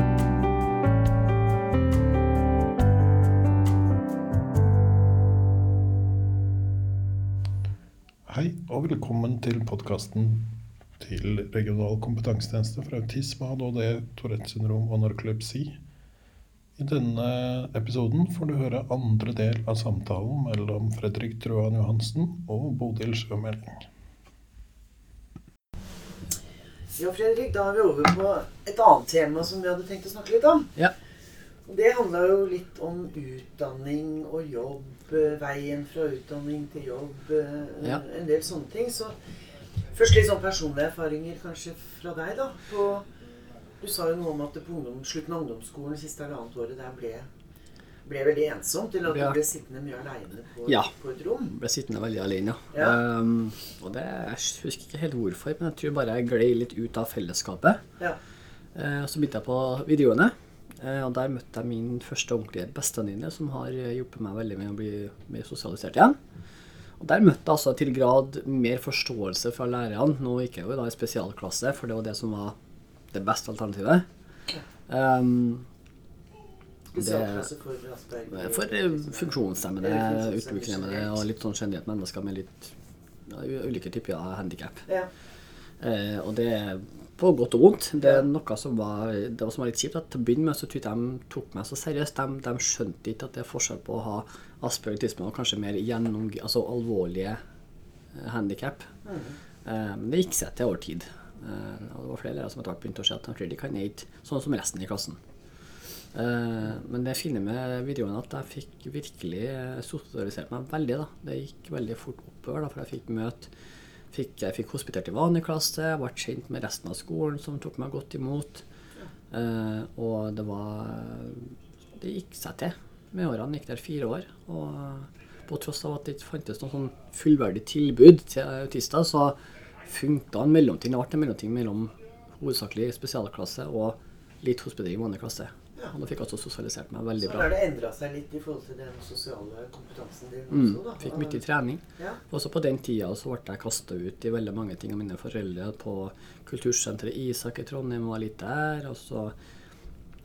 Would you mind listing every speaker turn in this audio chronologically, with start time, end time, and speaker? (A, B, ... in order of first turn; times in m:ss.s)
0:08.3-0:15.8 A
0:16.8-0:23.8 A
0:27.0-0:30.8 B
0:31.7-0:39.2 B
0:39.9-0:43.1 B
0:43.8-0:47.3 B
0:48.0-0:51.5 B
0:49.1-0:49.4 C
0:50.7-0:50.9 C
0:51.5-0:57.8 C
0:52.7-0:53.0 B
0:58.7-1:06.2 C
1:07.0-1:12.6 C
1:13.1-1:14.1 C
1:14.9-1:15.7 C
1:16.9-1:21.2 B
1:17.0-1:17.5 C
1:18.3-1:22.8 C
1:23.3-1:24.8 C
1:25.8-1:37.4 C
1:38.1-1:38.9 C
1:39.0-1:39.4 B
1:39.6-1:45.2 C
1:46.1-1:53.5 C
1:54.1-1:58.6 C
1:59.3-2:17.5 C
2:17.2-2:21.4 B
2:20.5-2:29.3 C